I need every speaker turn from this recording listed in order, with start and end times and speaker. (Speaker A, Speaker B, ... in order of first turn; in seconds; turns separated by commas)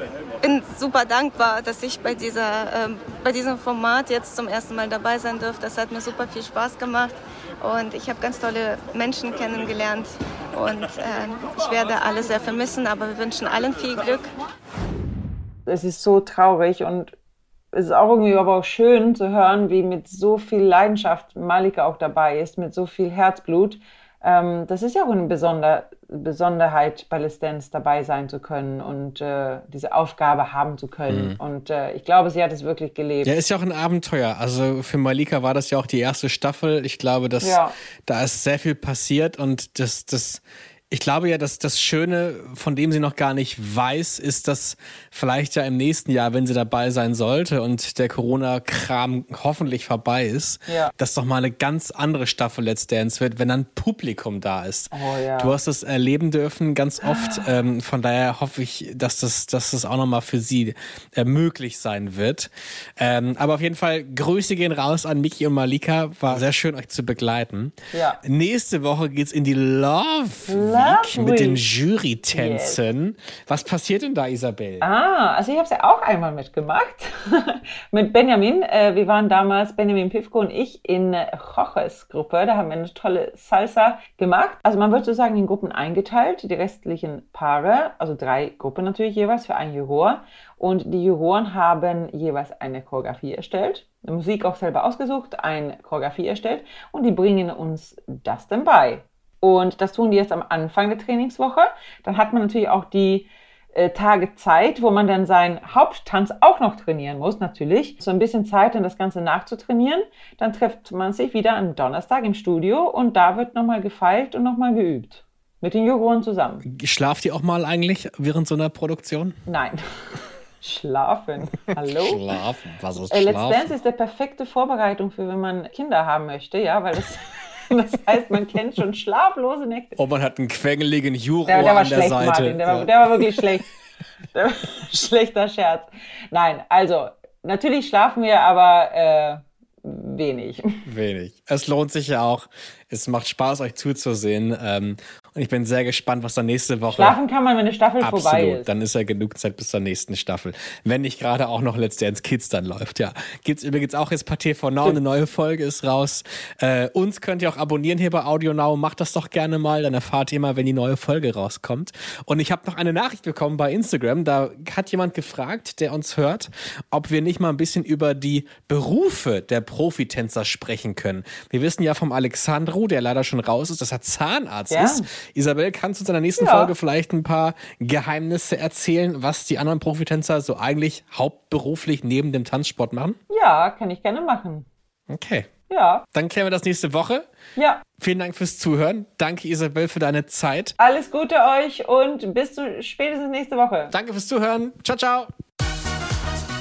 Speaker A: 0.4-14.3, Speaker B: 15.7-17.1, Speaker B: 17.7-33.3, Speaker C: 31.1-31.4, Speaker C: 33.2-74.8, Speaker B: 37.4-37.7, Speaker B: 54.9-55.5, Speaker B: 57.0-57.4, Speaker B: 67.9-68.2, Speaker B: 70.5-71.6, Speaker B: 72.3-72.8, Speaker B: 74.8-116.6, Speaker C: 116.6-119.4, Speaker B: 119.5-119.8, Speaker B: 120.6-122.2, Speaker C: 121.9-123.7, Speaker B: 123.1-130.0, Speaker C: 129.9-133.2, Speaker B: 131.4-133.6, Speaker B: 134.3-140.6, Speaker C: 140.8-147.2, Speaker B: 146.9-148.7, Speaker C: 148.0-183.2, Speaker B: 174.7-175.1, Speaker B: 176.4-176.7, Speaker B: 183.3-184.7, Speaker C: 185.1-185.5, Speaker B: 185.7-186.0, Speaker C: 186.1-187.3, Speaker B: 187.6-187.8, Speaker C: 188.0-190.7, Speaker B: 190.8-193.9, Speaker C: 193.9-195.3